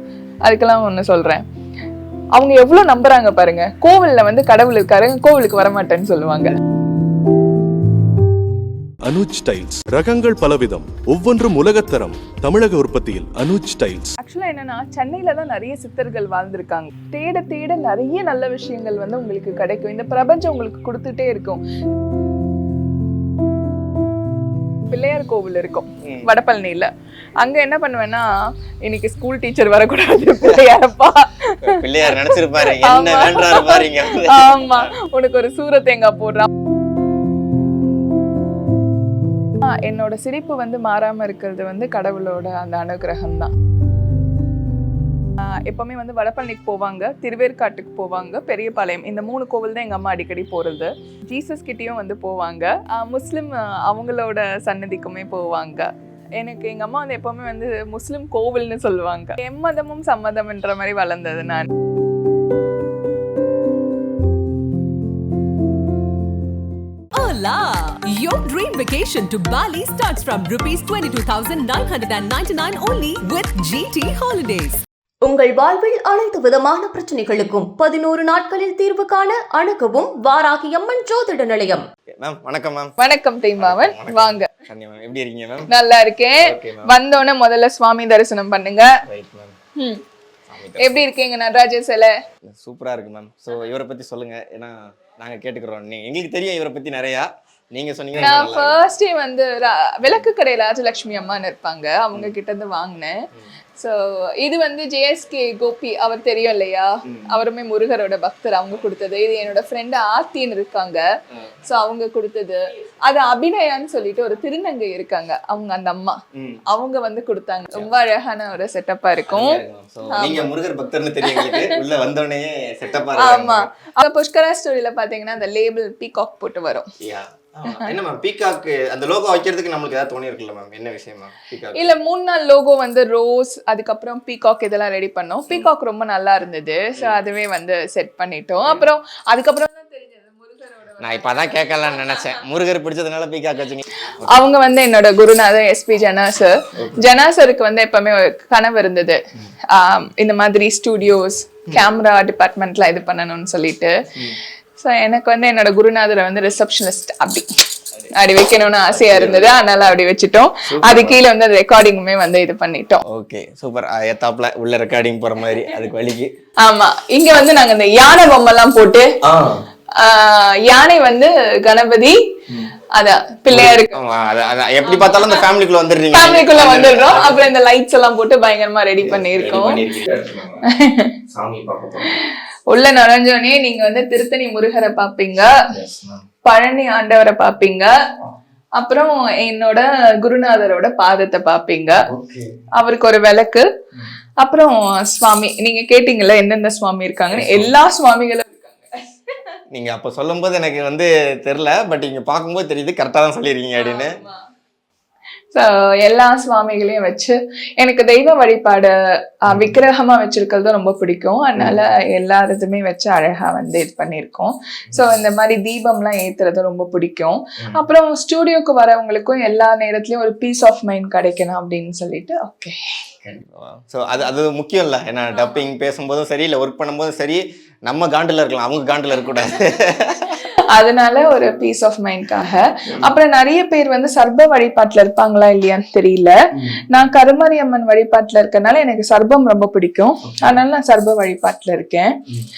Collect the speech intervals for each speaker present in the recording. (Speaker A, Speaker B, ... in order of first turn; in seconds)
Speaker A: 0.5-1.4, 2.3-6.5, 14.2-21.6, 24.9-26.9, 27.4-28.3, 28.8-36.5, 39.6-43.5, 45.5-61.7, 83.0-84.5, 85.7-88.9, 89.8-90.0, 90.8-92.1, 98.2-103.1, 103.8-111.0, 111.6-116.2, 116.7-120.5, 121.2-121.8, 123.2-126.9, 131.7-142.4, 144.3-153.9, 154.8-157.5, 158.1-163.0, 166.6-169.1, 170.0-172.2, 172.9-174.0, 174.8-175.5, 176.1-179.8, 180.6-181.1, 182.1-185.7, 186.4-187.9, 188.8-192.1, 192.8-193.7, 194.4-199.3, 203.8-204.4, 205.5-208.9, 209.4-222.8, 225.3-225.6, 230.7-236.3, 236.9-242.2
Speaker B: 9.1-14.1
Speaker C: 26.0-26.3, 31.6-34.9, 82.2-82.9, 83.6-85.7, 86.4-87.0, 89.0-89.5, 90.5-91.0, 92.5-98.8, 107.0-107.4, 116.3-116.6, 119.3-123.7, 127.0-131.9, 141.0-144.5, 146.8-147.2, 158.9-159.7, 160.7-161.2, 163.1-166.3, 169.2-169.6, 173.5-177.5, 179.0-180.6, 181.3-182.1, 185.6-186.2, 191.9-192.4, 197.3-197.8, 199.7-204.2, 209.5-209.8, 211.6-211.8, 217.6-217.8, 223.2-230.4, 236.5-236.8, 240.2-240.6
Speaker D: 67.1-74.8
Speaker E: 75.2-81.9